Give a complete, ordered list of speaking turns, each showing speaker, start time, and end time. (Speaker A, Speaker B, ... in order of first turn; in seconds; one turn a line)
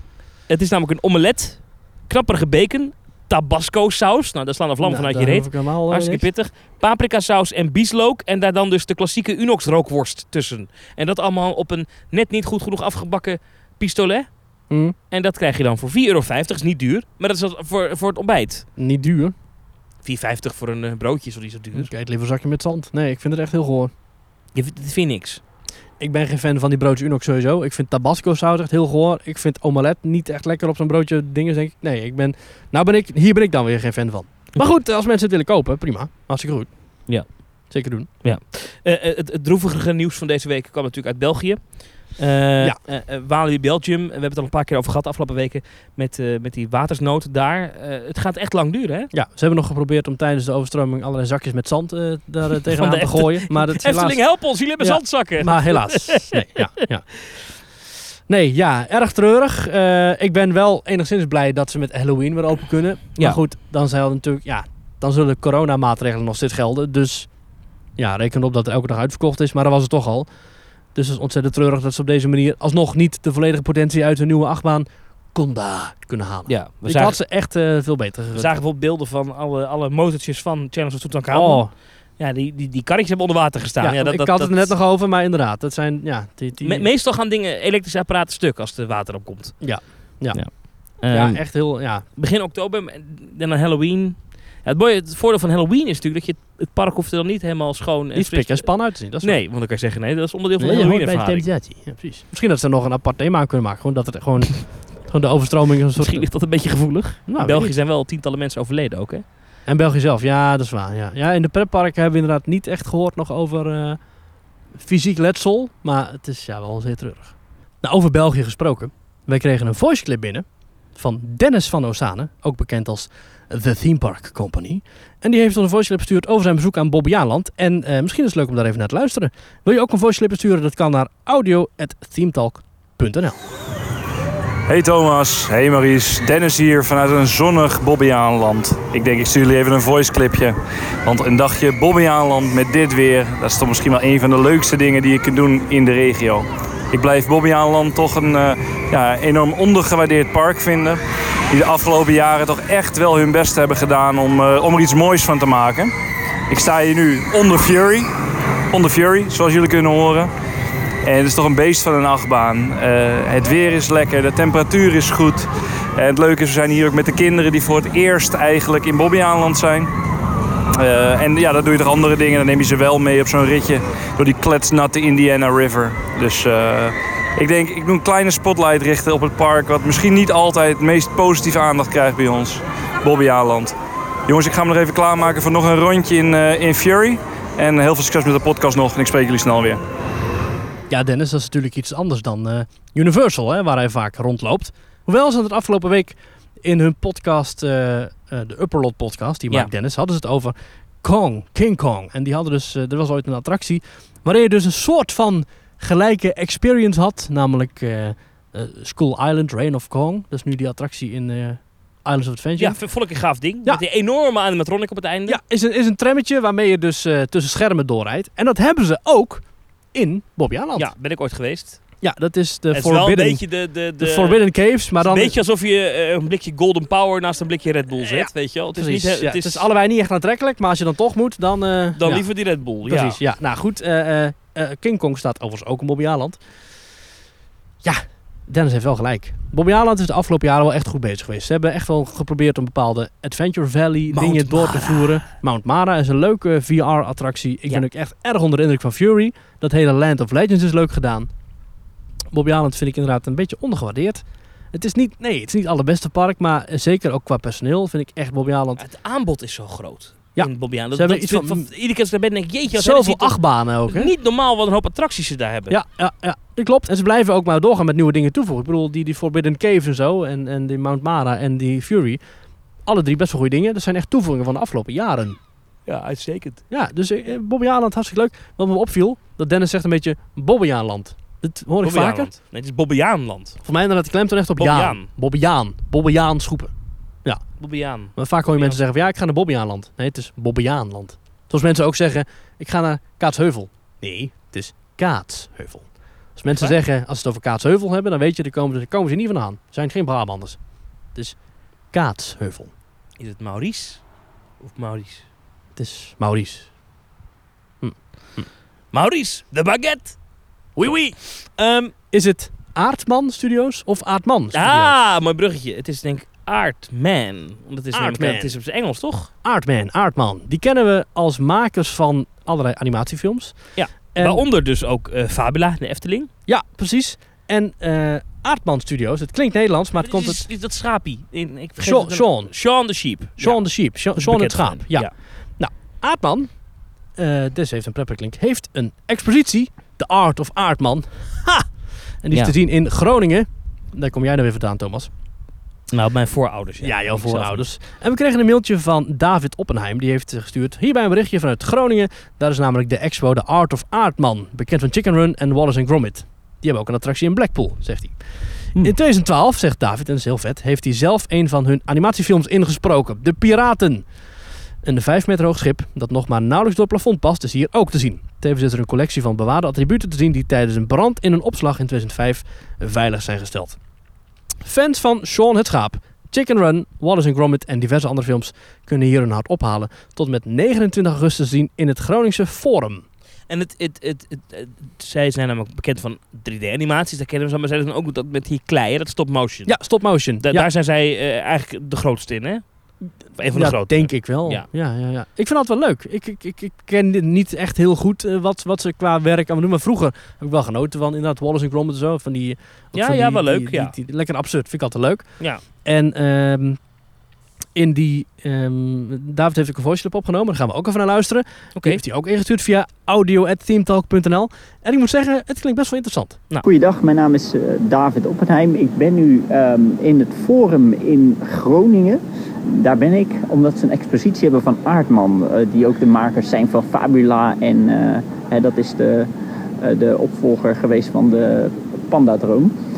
Speaker A: 0.5-14.3
Speaker B: 4.8-6.2
Speaker B: 14.7-14.9
Speaker A: 15.1-18.6
Speaker B: 18.8-19.3
Speaker A: 20.0-21.9
Speaker B: 21.7-23.9
Speaker A: 24.5-25.4
Speaker B: 26.0-36.7
Speaker A: 37.1-37.4
Speaker B: 37.7-38.1
Speaker A: 38.2-49.1
Speaker B: 49.1-54.2
Speaker A: 52.7-56.9
Speaker B: 54.8-57.0
Speaker B: 58.3-67.3
Speaker B: 68.0-70.3
Speaker B: 70.9-78.5
Speaker A: 76.5-77.2
Speaker A: 78.3-81.6
Speaker B: 81.3-81.7
Speaker A: 82.2-84.7
Speaker B: 83.8-86.9
Speaker A: 86.6-89.5
Speaker B: 89.6-92.0
Speaker A: 90.3-91.4
Speaker A: 92.2-98.7
Speaker B: 98.1-99.4
Speaker A: 99.2-101.5
Speaker B: 100.6-106.2
Speaker A: 106.0-109.2
Speaker B: 107.3-107.7
Speaker B: 109.7-114.0
Speaker B: 114.7-133.4
Speaker C: 134.7-155.9
Speaker C: 156.5-158.1
Speaker C: 158.7-160.3
Speaker C: 161.0-169.9
Speaker C: 170.7-183.7
Speaker C: 184.2-189.8
Speaker B: 190.9-212.8
Speaker A: 212.6-215.4
Speaker B: 215.3-220.9
Speaker A: 220.8-221.8
Speaker B: 222.0-223.4
Speaker A: 222.7-224.4
Speaker B: 224.0-225.3
Speaker A: 225.0-229.7
Speaker B: 228.0-232.2
Speaker A: 232.0-233.2
Speaker B: 232.8-236.4
Speaker B: 237.8-251.3
Speaker A: 244.1-245.3
Speaker B: 252.3-258.8
Speaker A: 258.8-265.8
Speaker B: 260.4-261.7
Speaker B: 262.7-264.1
Speaker B: 265.7-272.2
Speaker B: 272.9-275.4
Speaker A: 275.9-276.6
Speaker B: 276.7-282.3
Speaker A: 281.8-283.6
Speaker B: 283.6-286.7
Speaker A: 284.6-285.1
Speaker A: 287.6-288.8
Speaker B: 288.1-300.6
Speaker A: 296.5-296.8
Speaker B: 301.9-302.7
Speaker A: 303.2-304.0
Speaker A: 304.6-305.2
Speaker B: 305.8-306.7
Speaker B: 307.8-308.5
Speaker A: 308.9-310.2
Speaker B: 310.8-311.1
Speaker A: 310.8-311.9
Speaker B: 311.9-314.9
Speaker A: 314.5-319.3
Speaker B: 317.9-318.5
Speaker B: 319.4-323.5
Speaker A: 323.8-326.3
Speaker B: 324.1-324.4
Speaker B: 326.5-330.4
Speaker A: 330.0-333.6
Speaker B: 331.8-332.5
Speaker B: 333.4-336.5
Speaker A: 334.2-335.1
Speaker B: 337.2-341.7
Speaker B: 342.2-345.1
Speaker A: 345.9-347.6
Speaker B: 346.8-358.1
Speaker B: 358.8-364.1
Speaker B: 364.8-373.8
Speaker B: 374.6-383.0
Speaker A: 383.5-389.7
Speaker B: 389.7-390.7
Speaker A: 390.4-392.6
Speaker A: 393.3-394.7
Speaker B: 393.5-405.3
Speaker A: 402.9-403.9
Speaker B: 405.8-406.8
Speaker B: 407.7-416.4
Speaker A: 411.8-412.0
Speaker D: 416.6-432.7